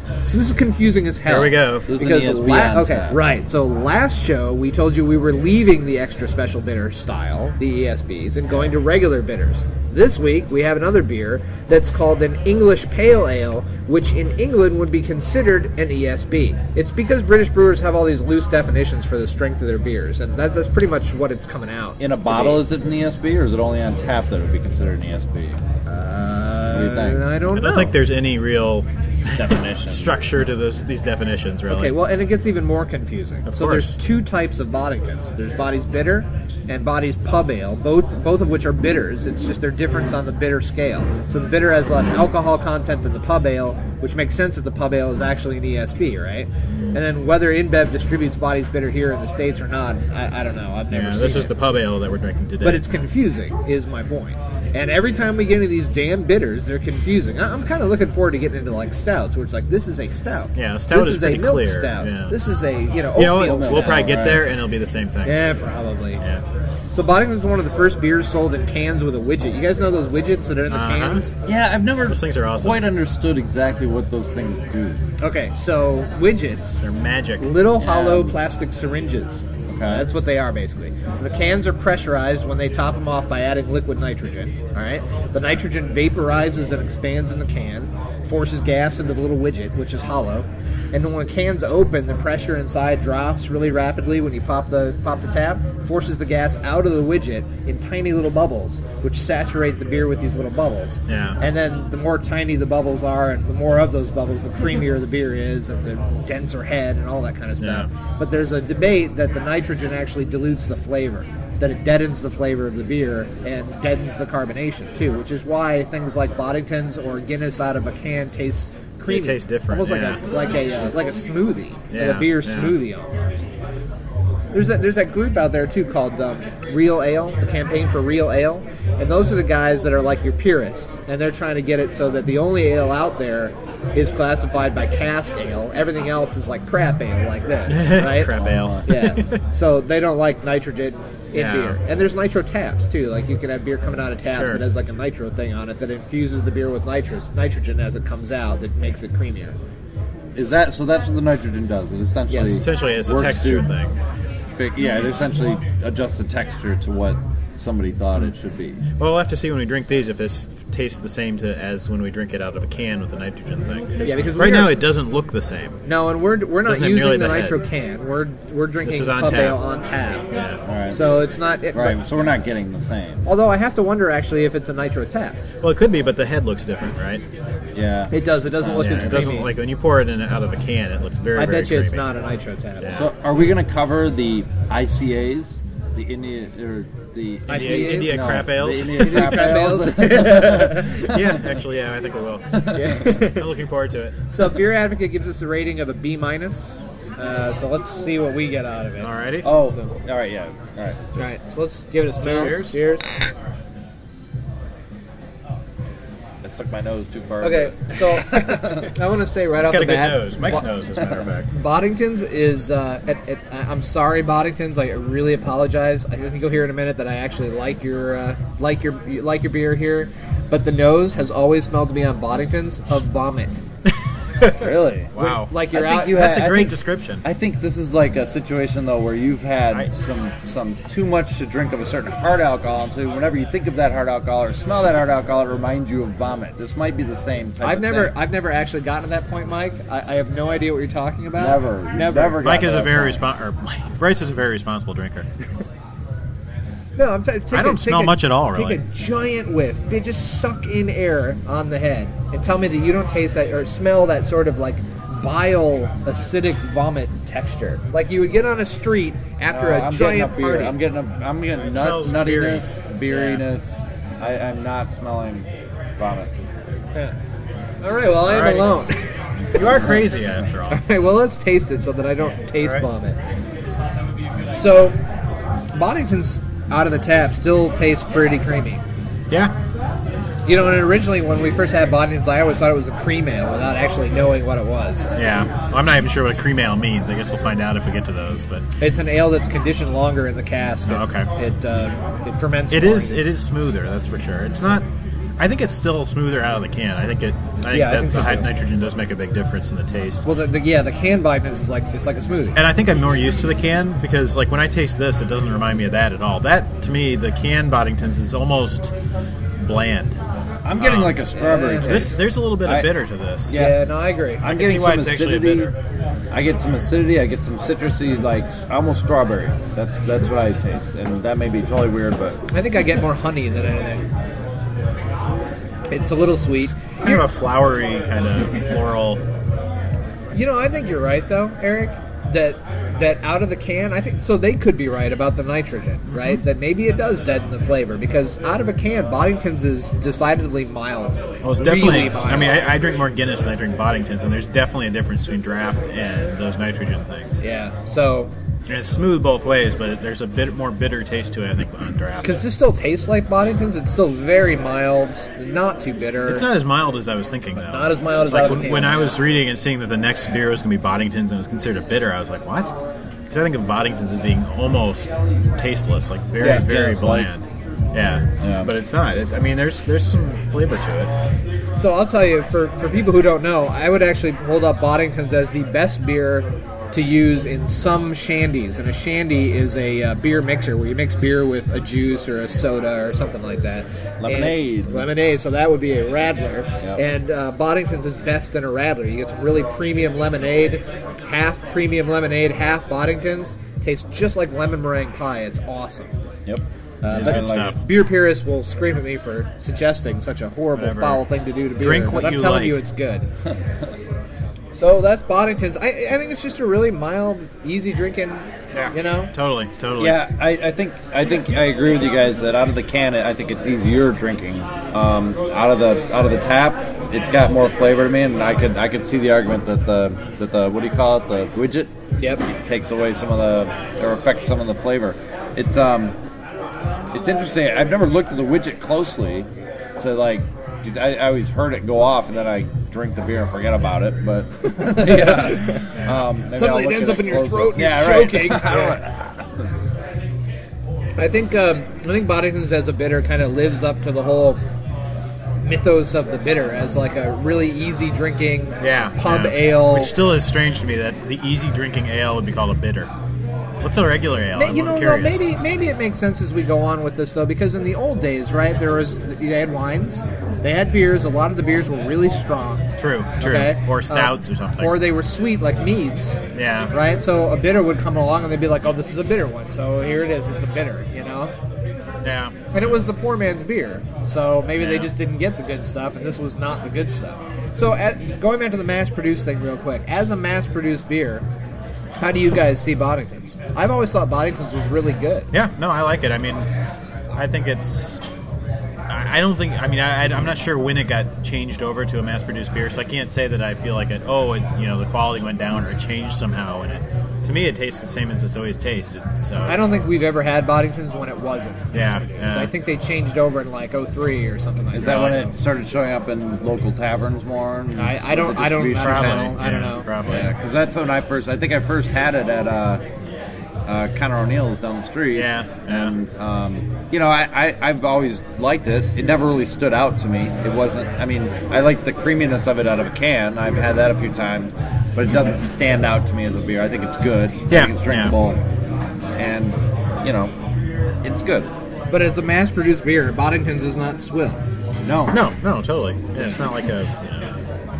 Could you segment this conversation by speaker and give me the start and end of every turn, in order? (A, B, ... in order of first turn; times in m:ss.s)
0:00.2-0:22.6 A
0:01.2-0:01.9 B
0:01.9-0:03.2 C
0:22.0-0:25.6 C
0:25.9-0:27.9 A
0:26.7-0:27.2 C
0:27.5-0:32.0 B
0:29.3-0:30.2 C
0:31.7-0:51.5 A
0:33.4-0:34.0 B
0:46.7-0:47.0 B
0:50.9-0:52.9 B
0:52.6-1:04.3 A
1:00.5-1:02.4 B
1:03.1-1:05.4 B
1:03.4-1:04.4 C
1:05.2-1:06.2 A
1:06.9-1:11.3 A
1:10.7-1:11.3 B
1:11.4-1:15.0 C
1:12.0-1:12.8 B
1:15.2-1:16.8 A
1:16.8-1:17.6 B
1:17.4-2:03.2 A
1:17.8-1:18.4 C
1:19.7-1:20.1 C
1:41.1-1:41.4 B
1:47.6-1:47.9 B
1:59.1-2:00.2 B
2:01.9-2:02.8 B
2:04.5-2:29.6 A
2:17.7-2:19.4 B
2:18.3-2:18.9 C
2:21.3-2:21.8 B
2:24.2-2:24.6 B
2:30.3-2:33.7 C
2:32.3-2:32.6 A
2:32.5-2:34.0 B
2:34.5-2:38.8 C
2:39.0-2:45.8 B
2:44.0-2:44.8 A
2:45.8-2:50.3 A
2:46.6-2:47.6 B
2:48.8-2:49.6 B
2:50.3-2:50.6 B
2:50.6-2:53.2 C
2:50.9-2:52.0 A
2:53.2-2:55.4 A
2:55.6-2:57.2 B
2:57.7-2:59.3 C
2:58.1-2:59.5 A
2:58.8-3:02.1 B
3:01.4-3:02.9 A
3:02.8-3:03.1 B
3:02.9-3:11.4 C
3:07.5-3:08.2 A
3:07.5-3:09.5 B
3:09.0-3:11.1 A
3:10.6-3:14.2 B
3:12.5-3:13.2 C
3:12.7-3:13.5 A
3:14.3-3:19.9 A
3:19.0-3:19.5 B
3:19.4-3:21.3 C
3:21.2-3:23.2 A
3:22.2-3:22.8 B
3:26.4-3:28.9 C
3:27.4-3:30.6 A
3:29.6-3:31.5 B
3:31.5-3:43.6 A
3:44.4-3:47.2 B
3:44.6-3:45.1 C
3:45.2-3:46.3 A
3:45.7-3:58.2 C
3:57.6-4:02.4 A
4:01.4-4:03.2 C
4:02.4-4:05.3 B
4:07.0-4:20.8 A
4:07.5-4:08.8 B
4:19.5-4:26.4 C
4:21.6-4:23.4 B
4:27.8-4:29.6 A
4:28.2-4:28.8 B
4:29.5-4:30.8 B
4:30.7-4:33.2 A
4:34.5-4:35.0 A
4:35.7-4:38.8 A
4:40.4-4:45.1 A
4:45.1-4:48.7 B
4:48.8-4:53.3 A
4:50.9-4:51.3 B
4:52.7-4:54.8 B
4:55.4-5:00.3 B
4:57.7-4:58.5 A
5:00.2-5:02.6 A
5:02.5-5:08.9 B
5:09.6-5:10.2 B
5:10.6-5:12.9 C
5:10.7-5:13.6 B
5:11.3-5:12.1 A
5:13.4-5:13.8 C
5:13.5-5:14.4 A
5:14.4-5:15.7 C
5:14.4-5:15.7 B
5:16.3-5:22.4 C
5:22.5-5:24.0 A
5:25.9-5:27.2 A
5:26.6-5:29.2 B
5:30.3-5:42.6 A
5:36.1-5:36.4 B
5:41.4-5:47.4 B
5:47.4-5:48.3 A
5:48.7-5:52.4 B
5:52.2-5:56.4 A
5:56.3-6:02.7 B
5:57.6-5:59.2 A
6:03.3-6:11.1 B
6:06.4-6:07.3 C
6:08.4-6:08.7 C
6:11.8-6:36.2 A
6:24.2-6:25.1 C
6:36.4-6:37.8 C
6:37.0-6:43.3 A
6:37.1-6:37.8 B
6:40.7-6:41.2 B
6:41.8-6:42.8 B
6:43.4-6:43.9 C
6:44.7-6:49.3 A
6:48.7-6:50.2 B
6:50.0-7:01.9 C
7:02.2-7:02.4 A
7:02.4-7:06.2 C
7:07.1-7:19.7 C
7:14.7-7:15.9 A
7:15.9-7:16.3 B
7:16.5-7:19.0 A
7:21.2-7:24.6 A
7:25.6-7:30.1 A
7:28.8-7:33.1 B
7:33.8-7:35.5 B
7:34.5-7:46.4 A
7:43.0-7:45.0 B
7:46.5-7:46.9 B
7:46.9-7:51.5 A
7:52.2-7:52.7 B
7:52.7-8:01.5 A
7:54.8-7:55.1 B
8:02.2-8:05.5 A
8:05.5-8:06.7 B
8:07.3-8:08.2 B
8:09.1-8:19.8 B
8:19.6-8:25.5 A
8:21.9-8:22.7 B
8:24.9-8:29.6 C
8:25.0-8:25.5 B
8:27.9-8:30.1 A
8:29.0-8:30.5 B
8:30.2-8:33.0 C
8:33.8-8:48.6 C
8:35.3-8:36.1 B
8:47.7-8:48.3 B
8:49.3-8:50.6 C
8:51.2-8:51.7 C
8:52.1-8:54.6 A
8:55.0-8:55.4 C
8:55.3-8:57.5 B